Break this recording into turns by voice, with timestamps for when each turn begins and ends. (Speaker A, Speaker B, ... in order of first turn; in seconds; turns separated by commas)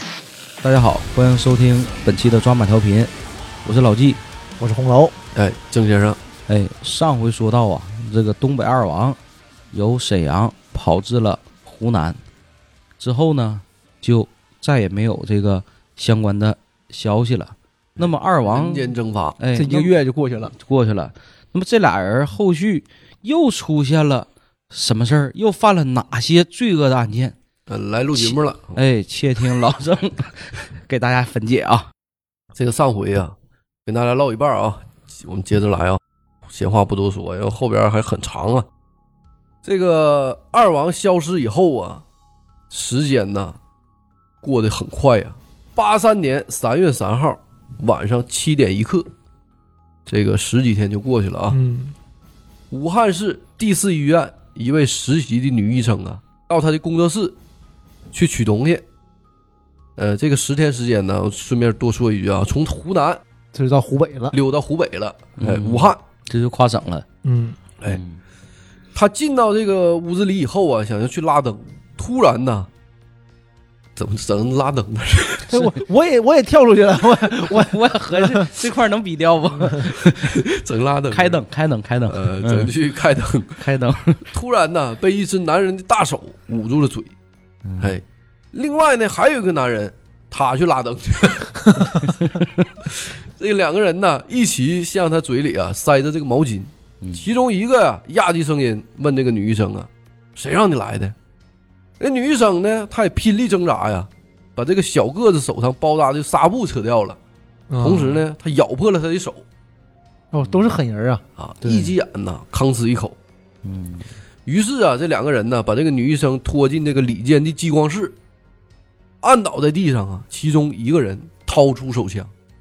Speaker A: 0.6-3.1, Speaker A: 3.6-4.2, Speaker B: 4.6-5.1, Speaker C: 5.3-6.2, Speaker A: 6.5-9.2, Speaker A: 9.7-12.2, Speaker A: 13.0-19.9, Speaker C: 17.9-19.4, Speaker B: 19.5-20.5, Speaker A: 20.5-27.3, Speaker C: 27.7-28.8, Speaker A: 28.1-31.9, Speaker C: 32.5-33.3, Speaker C: 33.9-38.7, Speaker C: 39.6-42.0, Speaker C: 42.7-43.6, Speaker C: 44.4-49.1, Speaker C: 50.1-51.6, Speaker B: 51.5-51.9, Speaker C: 52.7-57.4, Speaker C: 58.1-58.8, Speaker C: 60.0-63.2, Speaker B: 63.5-64.3, Speaker C: 64.3-66.0, Speaker A: 65.4-67.0, Speaker B: 67.2-67.6, Speaker A: 67.8-68.2, Speaker C: 68.9-72.7, Speaker C: 74.0-75.6, Speaker B: 75.5-78.4, Speaker A: 77.1-80.5, Speaker C: 80.1-81.4, Speaker A: 81.1-82.7, Speaker C: 82.1-83.7, Speaker A: 83.6-84.3, Speaker C: 84.3-87.1, Speaker A: 87.6-88.0, Speaker C: 87.8-91.8, Speaker C: 92.8-101.1, Speaker C: 102.0-107.2, Speaker B: 107.7-108.2, Speaker C: 107.8-109.4, Speaker B: 110.3-111.2, Speaker A: 110.4-110.8, Speaker C: 111.4-113.2, Speaker A: 111.6-111.9, Speaker A: 113.6-114.0, Speaker C: 114.5-118.2, Speaker C: 119.2-122.3